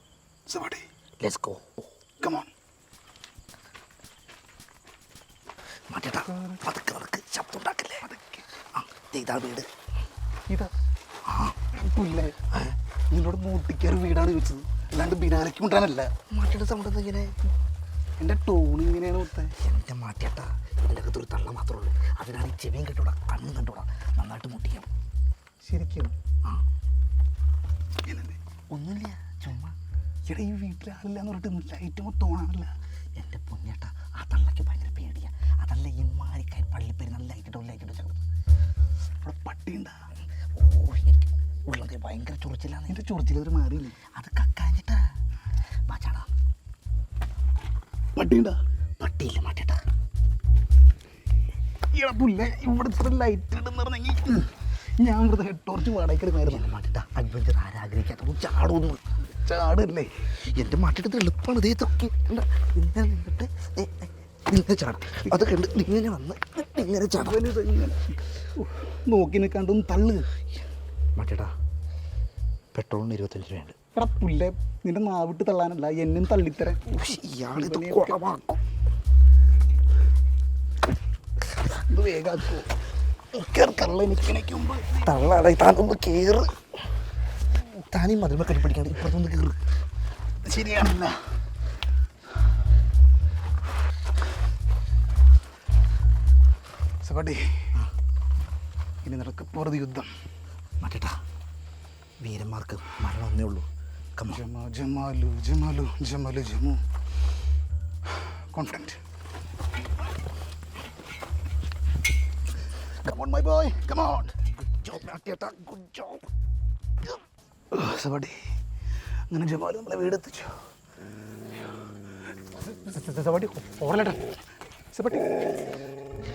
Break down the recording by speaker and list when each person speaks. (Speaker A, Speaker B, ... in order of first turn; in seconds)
Speaker A: 0.5-0.9, 2.2-2.5, 8.0-8.4, 11.7-12.4, 13.1-16.1, 18.2-19.5, 25.6-26.1, 28.1-28.4, 30.3-32.7, 39.2-40.0, 42.9-44.0, 48.2-48.6, 51.9-56.6, 59.4-60.1, 67.2-70.2, 74.0-76.8, 77.5-78.2, 81.9-82.7, 83.3-85.0, 90.4-91.2, 97.0-97.4, 99.0-100.1, 104.3-106.8, 108.2-109.0, 113.0-114.3, 117.7-118.4, 119.3-120.6, 122.6-124.4, 124.9-125.3
Speaker B: 1.2-1.6, 5.9-8.1, 8.7-9.7, 11.3-11.6, 16.3-17.4, 19.6-24.9, 28.7-29.8, 33.2-38.2, 40.5-43.0, 44.1-45.0, 45.9-46.3, 49.0-49.8, 56.5-59.0, 60.5-67.4, 71.2-71.5, 72.7-73.8, 76.9-78.6, 85.0-86.5, 87.9-89.6, 100.8-101.2, 102.2-104.4, 114.5-116.2